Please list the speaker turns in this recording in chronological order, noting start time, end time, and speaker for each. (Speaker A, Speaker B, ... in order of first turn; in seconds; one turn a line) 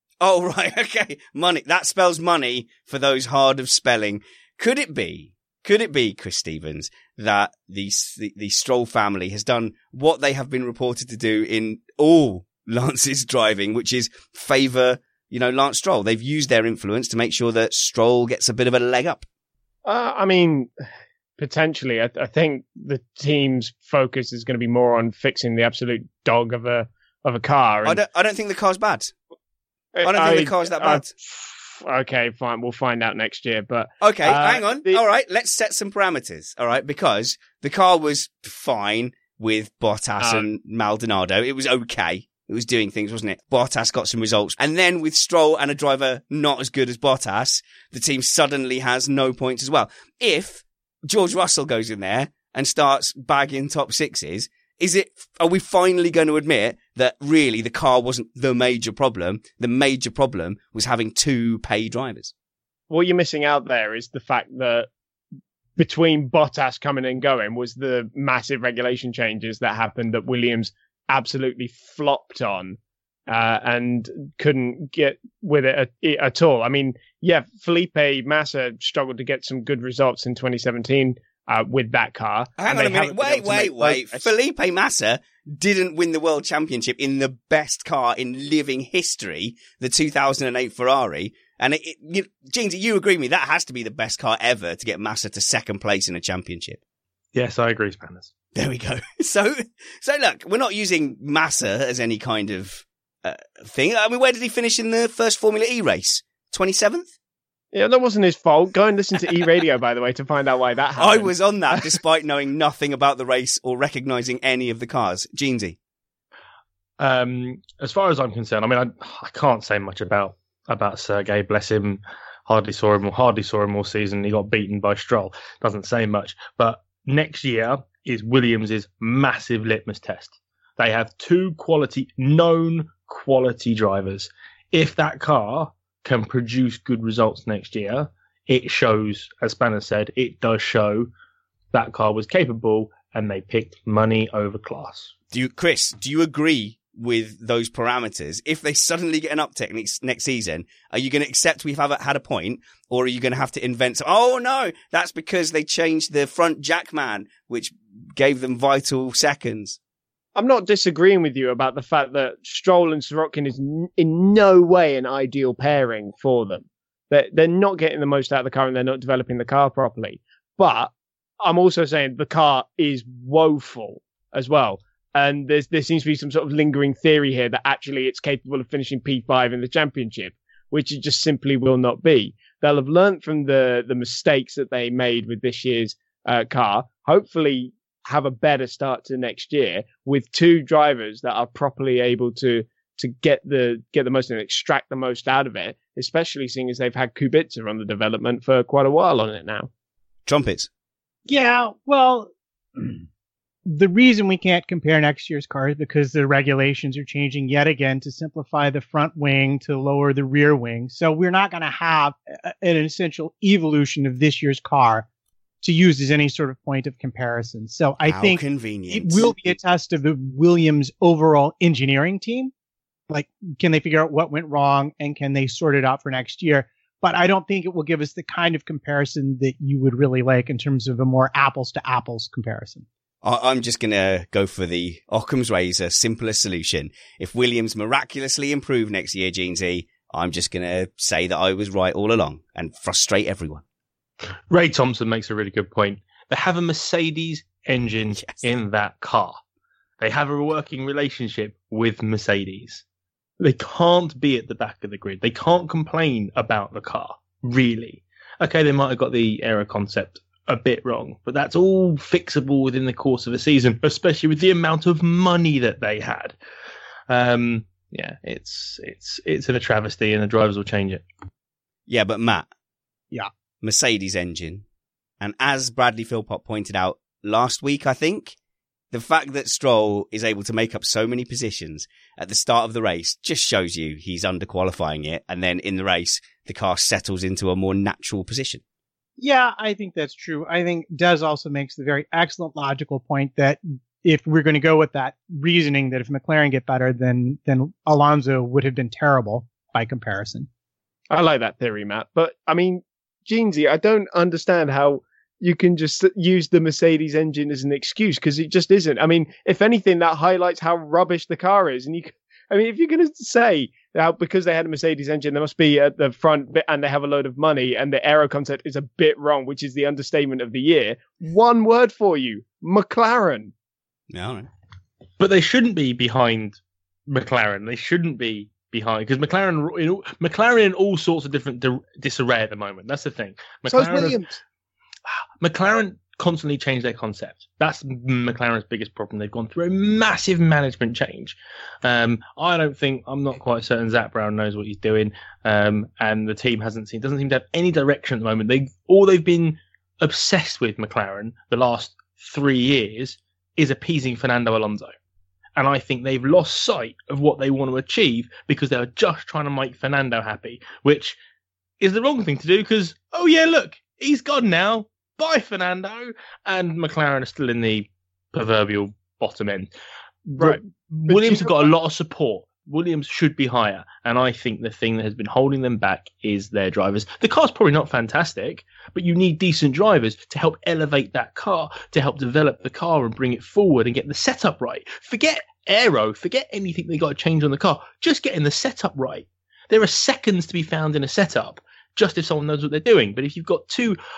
Speaker A: 0.2-19.2
Speaker B: 19.9-20.7
Speaker B: 21.4-28.0
Speaker A: 27.8-29.1
Speaker B: 29.9-35.0
Speaker A: 30.0-31.1
Speaker A: 34.0-62.3
Speaker B: 62.9-64.9
Speaker B: 65.8-84.3
Speaker A: 82.6-96.8
Speaker C: 97.3-98.3
Speaker A: 98.5-107.1
Speaker B: 107.7-111.9
Speaker A: 111.0-115.8
Speaker C: 117.0-141.1
Speaker C: 141.7-145.1
Speaker A: 145.3-159.8
Speaker B: 160.3-199.7
Speaker A: 200.3-200.7
Speaker D: 201.3-203.0
Speaker D: 203.7-215.1
Speaker D: 215.6-222.5
Speaker A: 218.1-219.4
Speaker D: 223.1-232.9
Speaker A: 233.2-243.6
Speaker C: 244.5-249.4
Speaker A: 248.1-248.5
Speaker C: 250.0-252.8
Speaker C: 253.4-266.4
Speaker C: 267.1-271.0
Speaker A: 271.9-272.5
Speaker A: 273.6-274.6
Speaker A: 275.2-278.4
Speaker A: 278.9-288.6
Speaker D: 289.2-300.5
Speaker B: 301.1-323.5
Speaker A: 324.1-324.5
Speaker C: 325.2-334.2
Speaker B: 333.7-334.4
Speaker C: 335.4-354.9
Speaker C: 355.6-361.2
Speaker C: 361.8-369.7
Speaker C: 370.3-394.0
Speaker B: 370.4-371.8